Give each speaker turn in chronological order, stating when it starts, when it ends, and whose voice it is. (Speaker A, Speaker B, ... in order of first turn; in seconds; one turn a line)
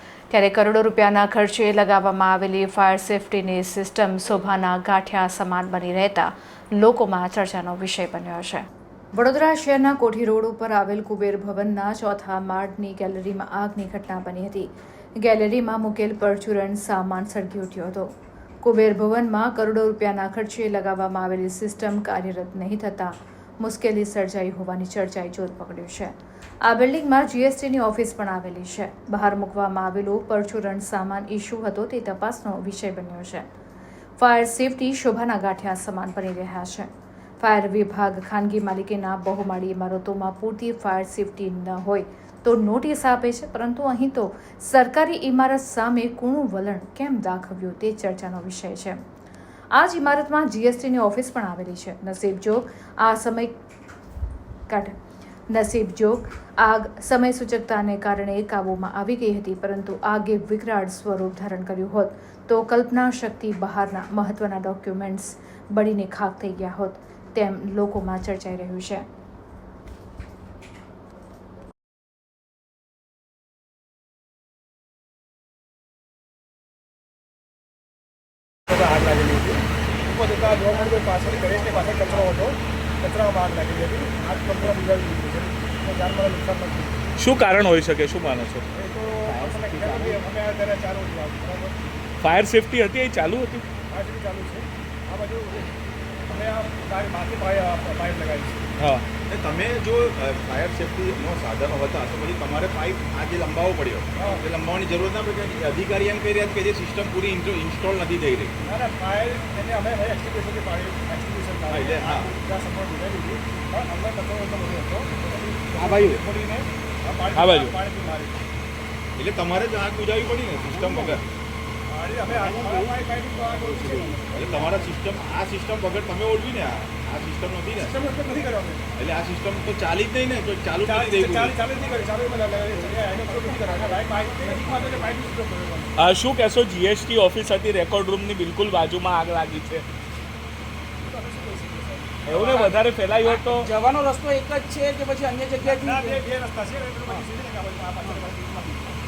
Speaker A: 0.3-18.1
Speaker A: 18.6-33.5
Speaker A: 34.2-36.9
Speaker A: 37.4-49.0
Speaker A: 49.8-53.6
Speaker A: 54.7-55.0
Speaker A: 55.5-69.1
Speaker B: 78.7-87.0
Speaker C: 87.2-88.7
Speaker B: 88.7-91.9
Speaker D: 89.3-90.2
Speaker C: 92.2-93.7
Speaker B: 93.9-95.7
Speaker B: 96.3-98.7
Speaker C: 98.8-99.0
Speaker E: 99.3-108.5
Speaker B: 104.2-104.4
Speaker B: 108.7-118.4
Speaker E: 111.7-112.3
Speaker D: 115.8-116.2
Speaker C: 117.3-117.8
Speaker E: 119.2-121.2
Speaker D: 120.8-121.2
Speaker B: 121.9-124.9
Speaker D: 122.3-122.9
Speaker D: 123.6-124.1
Speaker E: 124.4-128.0
Speaker B: 127.8-128.9
Speaker E: 129.0-131.6
Speaker B: 130.8-136.0
Speaker D: 133.1-134.0
Speaker C: 136.0-139.8
Speaker B: 141.1-142.7
Speaker C: 142.2-143.7
Speaker D: 142.4-146.2
Speaker B: 145.6-149.0